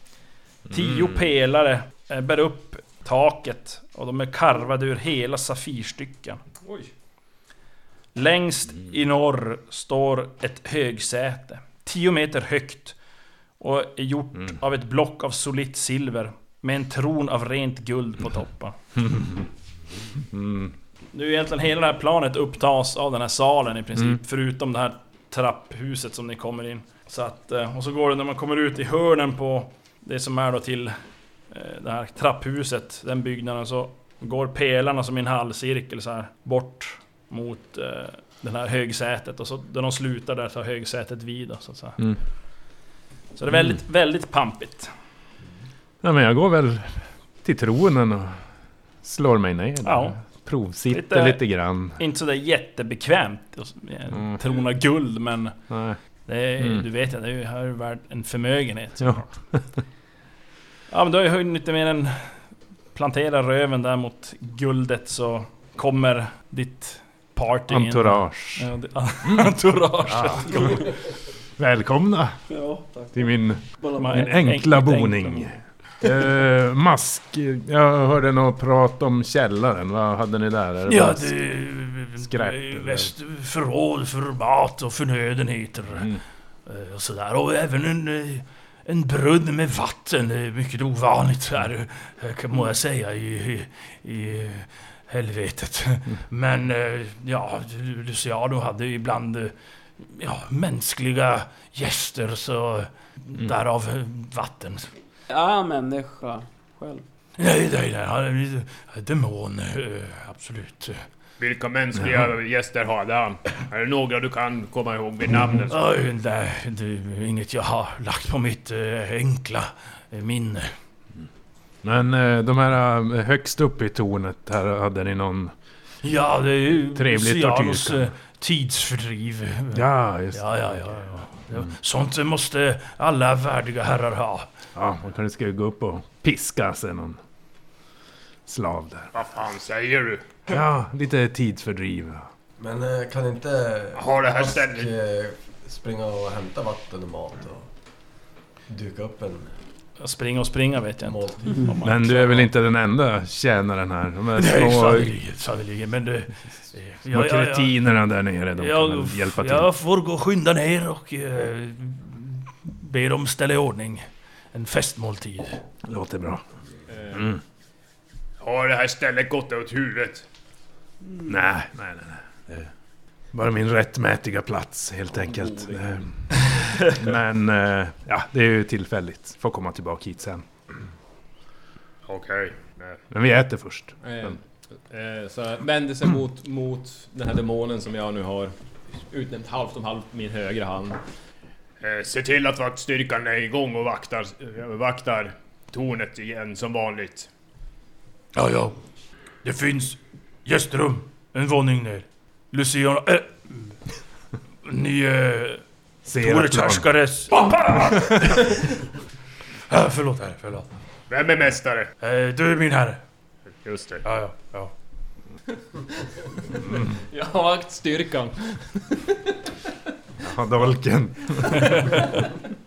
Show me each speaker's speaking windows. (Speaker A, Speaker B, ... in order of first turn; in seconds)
Speaker A: 0.7-1.3, 18.9-19.5, 20.3-20.7, 43.5-43.8, 46.0-48.4, 49.0-52.0, 54.1-54.4, 55.7-56.0, 56.6-56.8, 59.0-59.6, 67.7-68.7, 69.2-70.9, 71.6-72.4, 73.1-81.3, 82.2-83.1, 85.9-86.2, 121.8-125.5, 126.9-128.1, 129.7-131.7, 134.7-137.2, 138.4-139.1, 140.5-142.3, 151.8-155.2, 157.1-159.7, 165.8-166.4, 167.1-167.4, 171.3-172.7, 173.3-180.5, 183.1-184.3, 206.0-206.9, 207.9-208.3, 220.2-221.9
Speaker B: 0.7-6.4, 8.1-12.9, 13.6-18.8, 21.1-30.9, 31.5-42.0, 43.3-44.9, 49.8-50.2, 50.9-55.5, 56.2-59.3, 60.9-62.3, 62.9-70.9, 74.0-75.5, 150.0-152.5
Speaker C: 6.6-6.9, 166.9-167.3, 175.2-175.8, 184.0-188.5, 189.1-191.0, 217.1-219.3
Speaker D: 72.5-74.3, 105.3-107.0, 151.5-151.8
Speaker E: 80.9-86.1, 86.7-104.9, 107.4-111.0, 115.7-120.7, 126.0-134.5, 154.3-157.7, 158.6-165.6, 198.3-198.8, 199.4-203.7, 204.6-205.6, 206.1-208.8, 209.7-210.7, 212.0-213.0, 214.0-214.7
Speaker F: 111.4-115.8, 139.1-140.3, 143.9-144.9, 168.4-170.2, 182.1-183.0, 191.8-197.3, 211.1-211.9, 213.6-214.0
Speaker G: 142.6-147.7, 148.7-149.5, 151.0-151.8